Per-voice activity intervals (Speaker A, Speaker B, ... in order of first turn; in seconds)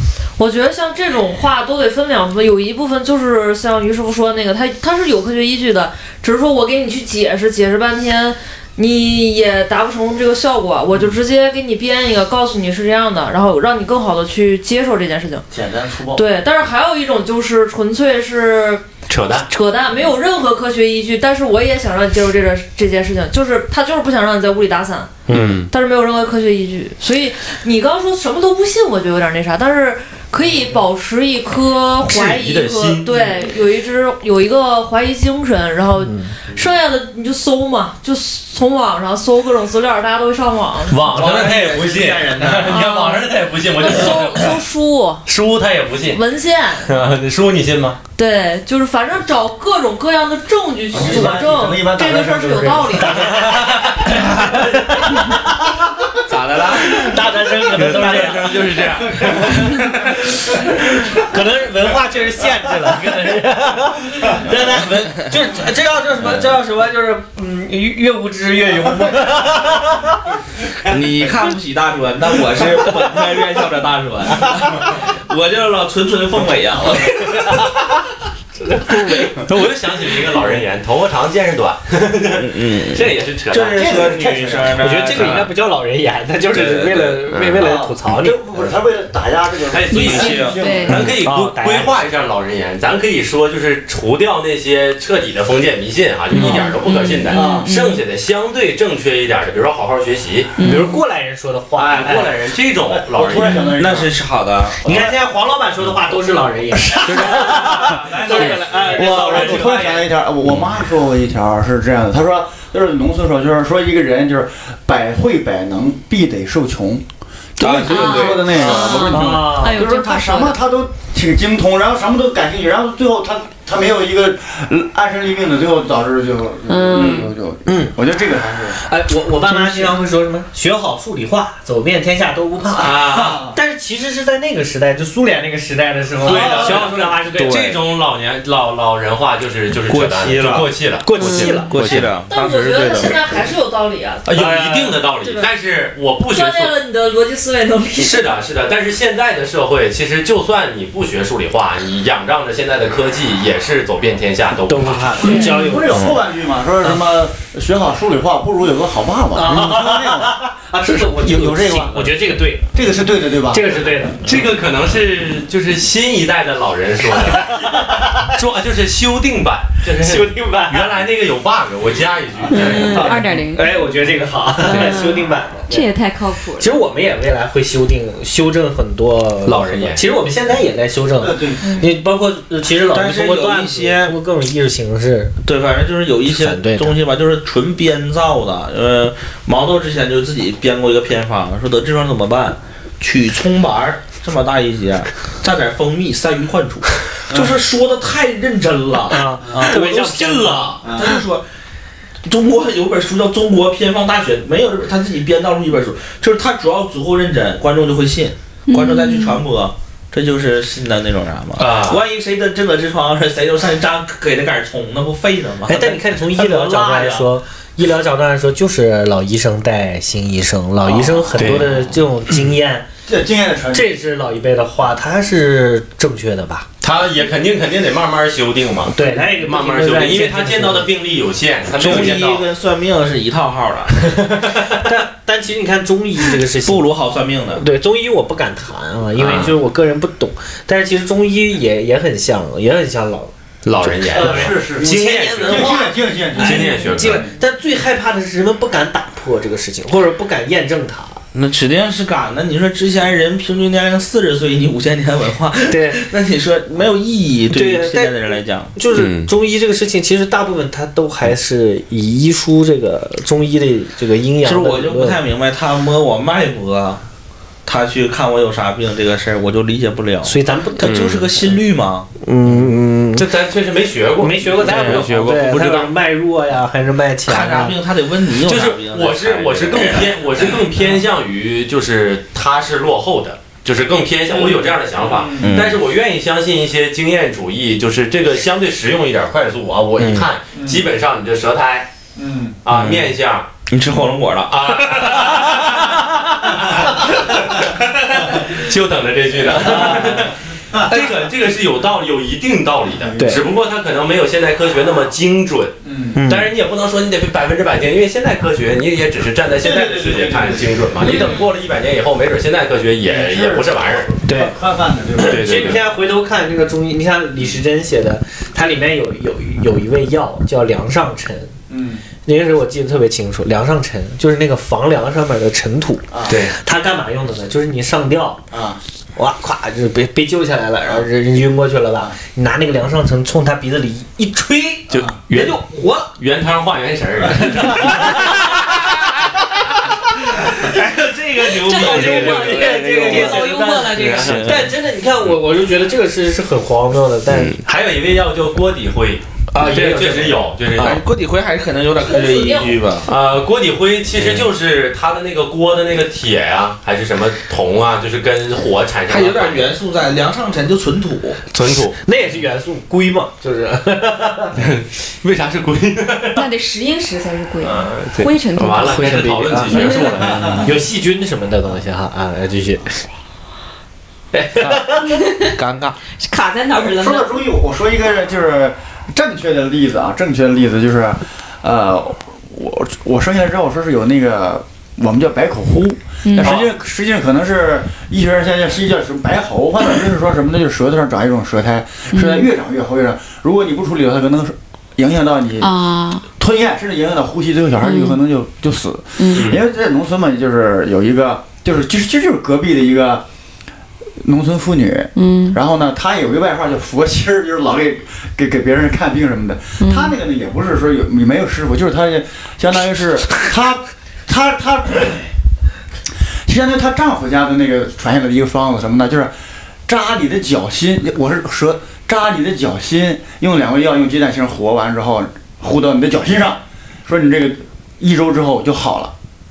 Speaker A: 0.4-15.4, 16.1-18.9, 19.4-41.0, 42.7-45.2, 46.1-46.9, 48.1-53.6, 142.3-144.3, 145.2-145.5, 146.3-148.3, 352.0-352.8
Speaker B: 15.5-16.2, 50.9-53.1, 83.6-84.9, 87.5-91.1, 97.3-97.7, 103.0-104.1, 104.8-105.1, 106.8-117.0, 117.6-128.8, 133.1-133.6, 136.2-136.9, 155.2-162.2, 162.7-163.9, 172.5-173.4, 181.2-181.8, 199.5-199.7, 200.8-201.2, 220.8-221.5, 223.1-223.9, 244.0-247.3, 284.3-285.6, 290.5-290.9, 292.1-292.6, 299.5-301.1, 302.9-303.4, 305.8-306.2, 309.5-311.2, 313.0-315.8, 321.7-322.0, 326.1-326.4, 328.5-328.8, 370.2-370.7, 376.7-395.8, 396.4-403.2, 404.2-415.3, 416.4-419.3, 419.9-429.1
Speaker C: 19.1-19.5, 25.3-25.7, 32.0-33.1, 40.9-44.6, 45.2-46.2, 46.8-48.0, 53.2-54.3, 56.7-60.7, 79.3-84.0, 87.3-87.6, 89.7-100.5, 101.8-103.6, 107.0-108.8, 126.9-127.3, 132.8-133.4, 136.2-142.1, 144.2-146.7, 148.0-155.3, 164.2-167.8, 168.3-173.1, 179.4-180.0, 211.6-212.0, 221.3-222.0, 226.8-232.4, 239.2-239.5, 243.6-245.7, 246.4-247.2, 258.9-259.3, 270.8-271.2, 273.1-275.9, 278.4-291.9, 292.6-293.5, 294.5-314.1, 315.2-315.8, 326.3-326.5, 334.9-335.6, 336.1-339.1, 343.9-344.6, 347.3-351.0, 353.1-359.7, 361.5-362.0, 364.6-366.4, 367.6-370.7, 386.4-386.7, 399.3-399.6
Speaker D: 25.3-25.6, 36.0-36.3, 54.4-55.4, 56.8-59.6, 60.4-70.2, 78.6-79.3, 84.7-88.4, 90.9-92.0, 100.6-102.4, 104.8-110.1, 119.1-119.8, 127.7-127.9, 128.8-137.7, 141.0-141.7, 144.3-145.0, 154.7-156.1, 159.3-162.7, 163.5-164.3, 167.3-168.3, 169.9-171.0, 173.4-175.9, 176.6-185.3, 186.3-187.0, 199.1-200.8, 215.7-222.9, 223.7-226.7, 228.9-230.9, 234.5-236.9, 237.5-243.3, 243.9-251.2, 255.7-256.0, 257.5-265.2, 270.2-270.9, 272.2-273.3, 274.2-277.8, 303.2-303.4, 306.1-306.5, 314.2-314.5, 315.1-321.5, 322.2-328.4, 329.1-336.1, 337.4-338.4, 341.4-347.7, 349.5-350.4, 362.0-364.6, 369.2-369.9, 370.6-373.0, 374.3-375.1
Speaker E: 41.1-42.8, 56.3-57.1, 70.8-77.7, 82.4-85.5, 86.5-87.2, 89.9-90.7, 103.8-104.8, 117.6-118.9, 136.4-137.8, 139.8-140.7, 141.4-143.3, 182.8-184.1, 185.4-201.4, 202.2-217.2, 231.7-234.2, 236.6-237.6, 244.7-245.9, 251.3-258.7, 264.4-267.0, 267.6-272.1, 274.6-275.1, 277.2-280.6, 285.4-285.8, 290.0-290.3, 292.7-293.1, 293.7-295.3, 340.6-344.7, 350.7-353.1, 359.1-361.4, 369.1-369.6, 375.4-376.0
Speaker F: 89.9-91.0, 96.3-98.0, 100.6-101.0, 117.9-120.6, 126.7-127.3, 129.5-129.9, 141.2-141.7, 155.2-155.6, 172.5-173.7, 174.6-176.8, 208.7-209.4, 311.1-311.4, 341.5-344.4, 366.3-370.3, 375.1-375.5, 376.1-377.4, 386.2-386.6, 392.1-392.5, 395.6-396.2, 397.8-398.2, 399.2-399.5, 405.1-405.6, 409.8-410.1